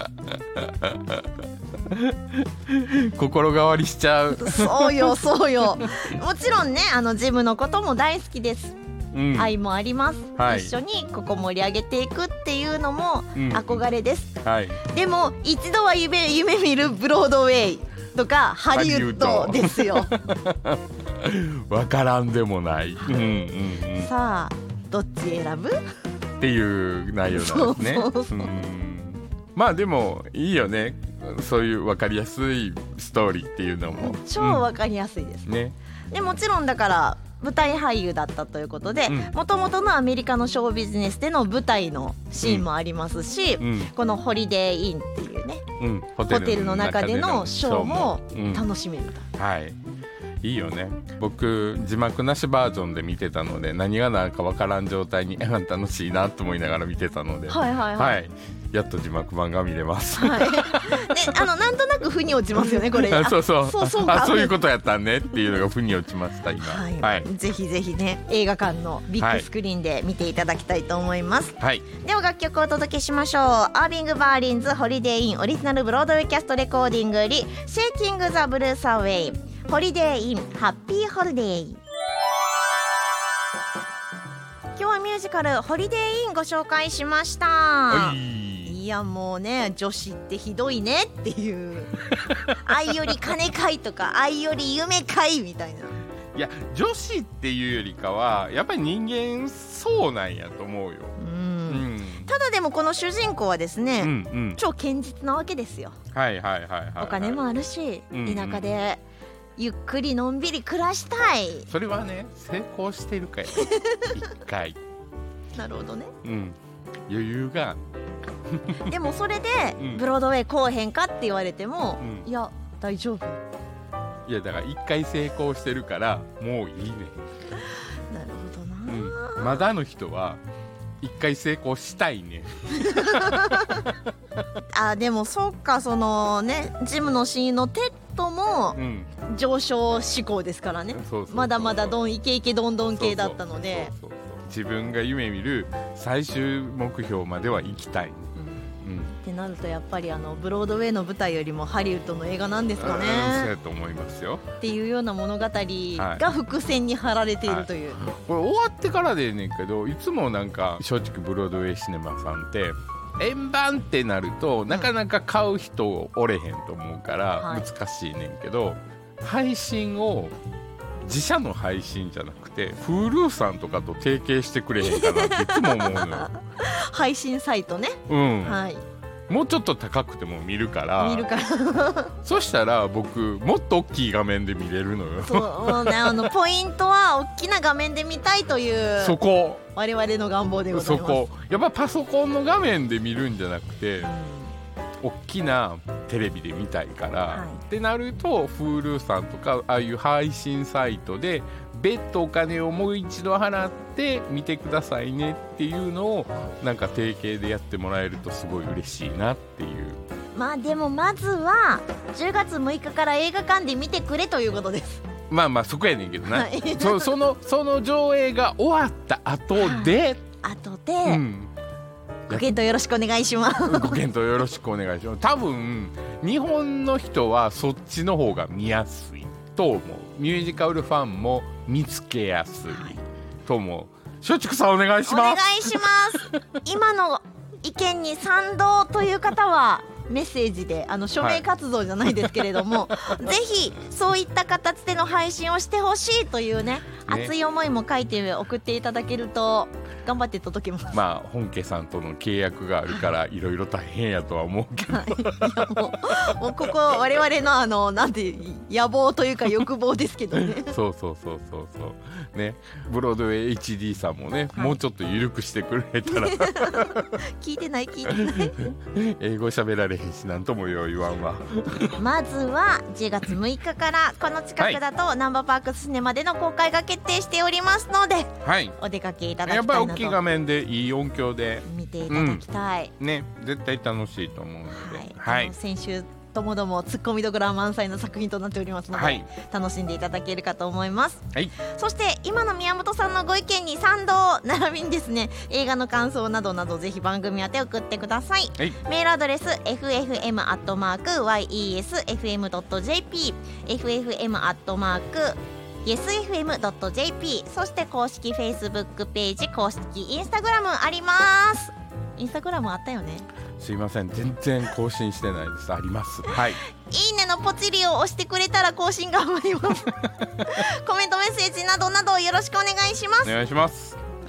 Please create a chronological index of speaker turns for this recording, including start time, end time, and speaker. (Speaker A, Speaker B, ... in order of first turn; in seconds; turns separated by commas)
Speaker A: 0.2-1.3, Speaker A: 1.9-5.2, Speaker B: 4.3-8.8, Speaker A: 9.1-9.5, Speaker B: 9.3-14.3, Speaker A: 10.4-10.7, Speaker A: 13.3-13.8, Speaker A: 14.4-14.8, Speaker B: 14.8-20.1, Speaker A: 18.7-24.1, Speaker B: 23.9-25.8, Speaker A: 26.4-34.6, Speaker B: 27.3-28.5, Speaker B: 33.9-35.5, Speaker A: 35.5-35.7, Speaker B: 36.1-45.6, Speaker A: 39.1-39.3, Speaker A: 43.6-43.9, Speaker A: 45.8-48.6, Speaker B: 46.3-49.2, Speaker A: 49.3-49.8, Speaker A: 50.4-61.4, Speaker B: 57.5-58.2, Speaker B: 60.1-64.5, Speaker A: 62.9-67.3, Speaker B: 66.6-81.8, Speaker A: 69.2-69.5, Speaker A: 71.6-71.8, Speaker B: 84.8-96.0, Speaker A: 87.9-88.8, Speaker A: 92.1-92.5, Speaker A: 96.3-101.2, Speaker B: 101.2-106.0, Speaker A: 101.7-102.3, Speaker A: 104.0-104.6, Speaker A: 106.1-107.4, Speaker B: 107.0-109.0, Speaker A: 108.1-108.6, Speaker B: 109.6-111.7, Speaker A: 111.7-114.8, Speaker B: 113.7-114.0, Speaker B: 115.5-116.1, Speaker A: 116.2-116.6, Speaker A: 117.1-117.8, Speaker A: 118.5-118.9, Speaker B: 118.8-123.4, Speaker A: 122.0-122.2, Speaker A: 124.3-127.2, Speaker B: 128.1-129.6, Speaker A: 128.9-130.4, Speaker A: 131.0-133.4, Speaker B: 132.7-133.9, Speaker B: 134.7-143.9, Speaker A: 138.8-139.1, Speaker A: 140.9-142.0, Speaker A: 142.9-148.3, Speaker B: 148.4-153.5, Speaker A: 148.8-149.1, Speaker A: 152.8-154.4, Speaker B: 154.6-158.0, Speaker A: 155.9-156.2, Speaker A: 157.4-170.3, Speaker B: 167.4-167.7, Speaker A: 171.0-176.3, Speaker B: 174.8-178.8, Speaker A: 178.1-178.6, Speaker A: 179.3-181.3, Speaker B: 181.0-182.1, Speaker A: 182.2-186.3, Speaker B: 185.2-189.2, Speaker A: 189.0-189.6, Speaker B: 189.7-191.2, Speaker A: 190.7-194.1, Speaker B: 194.0-194.5, Speaker A: 195.0-210.0, Speaker B: 197.3-197.6, Speaker B: 210.3-215.0, Speaker A: 215.3-220.2, Speaker B: 216.3-217.1, Speaker B: 219.5-221.2, Speaker A: 221.1-221.5, Speaker B: 222.3-224.0, Speaker A: 223.7-232.9, Speaker B: 232.7-233.0, Speaker A: 233.4-235.9, Speaker B: 235.1-250.9, Speaker A: 242.9-243.2, Speaker A: 247.1-247.3, Speaker A: 250.9-255.7, Speaker B: 254.9-260.7, Speaker A: 260.5-267.1, Speaker B: 266.1-268.6, Speaker A: 268.1-272.0, Speaker B: 271.9-280.2, Speaker A: 278.4-278.8, Speaker A: 279.4-282.4, Speaker B: 281.6-282.9, Speaker A: 283.0-285.5, Speaker B: 284.7-313.3, Speaker A: 288.9-289.2, Speaker A: 313.6-316.6, Speaker B: 316.7-323.3, Speaker A: 323.2-324.0